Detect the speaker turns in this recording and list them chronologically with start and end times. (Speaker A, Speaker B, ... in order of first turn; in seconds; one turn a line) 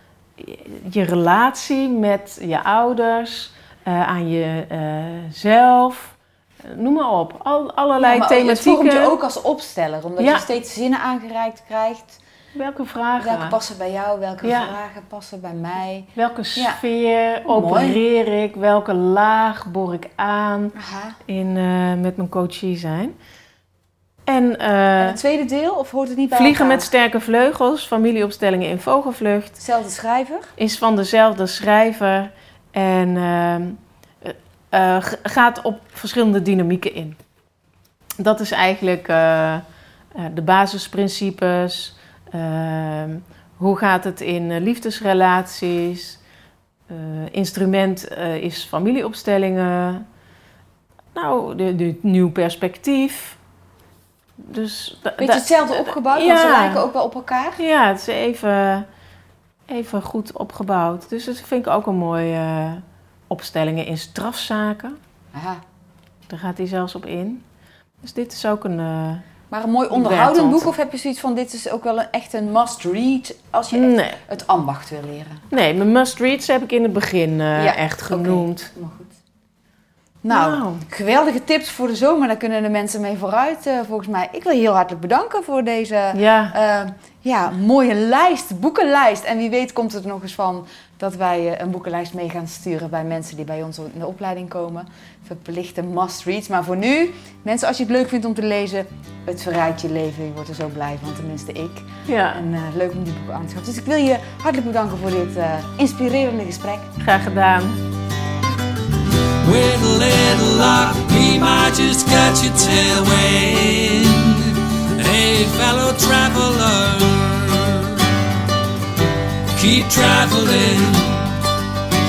Speaker A: 0.4-9.1
Speaker B: 8.0-12.2
Speaker A: 10.2-10.4
Speaker A: 12.5-13.6
Speaker B: 13.2-16.8
Speaker A: 14.4-14.7
Speaker A: 16.1-20.7
Speaker B: 17.4-18.0
Speaker B: 20.7-21.2
Speaker A: 21.2-23.1
Speaker A: 24.2-25.2
Speaker B: 25.0-26.9
Speaker A: 26.3-29.6
Speaker B: 29.6-30.5
Speaker A: 30.6-37.2
Speaker A: 38.2-46.2
Speaker A: 46.9-50.0
Speaker A: 51.1-53.4
Speaker A: 54.4-56.9
Speaker B: 55.2-57.6
Speaker A: 57.6-58.9
Speaker A: 59.7-65.0
Speaker B: 65.3-65.6
Speaker A: 66.3-67.4
Speaker A: 68.0-69.2
Speaker B: 69.5-75.4
Speaker A: 69.9-70.7
Speaker A: 73.7-74.2
Speaker A: 75.5-78.7
Speaker B: 77.5-79.1
Speaker B: 80.2-107.0
Speaker A: 80.3-80.8
Speaker A: 86.1-86.5
Speaker A: 102.0-102.4
Speaker A: 107.0-107.8
Speaker C: 109.4-118.1
Speaker C: 119.5-121.3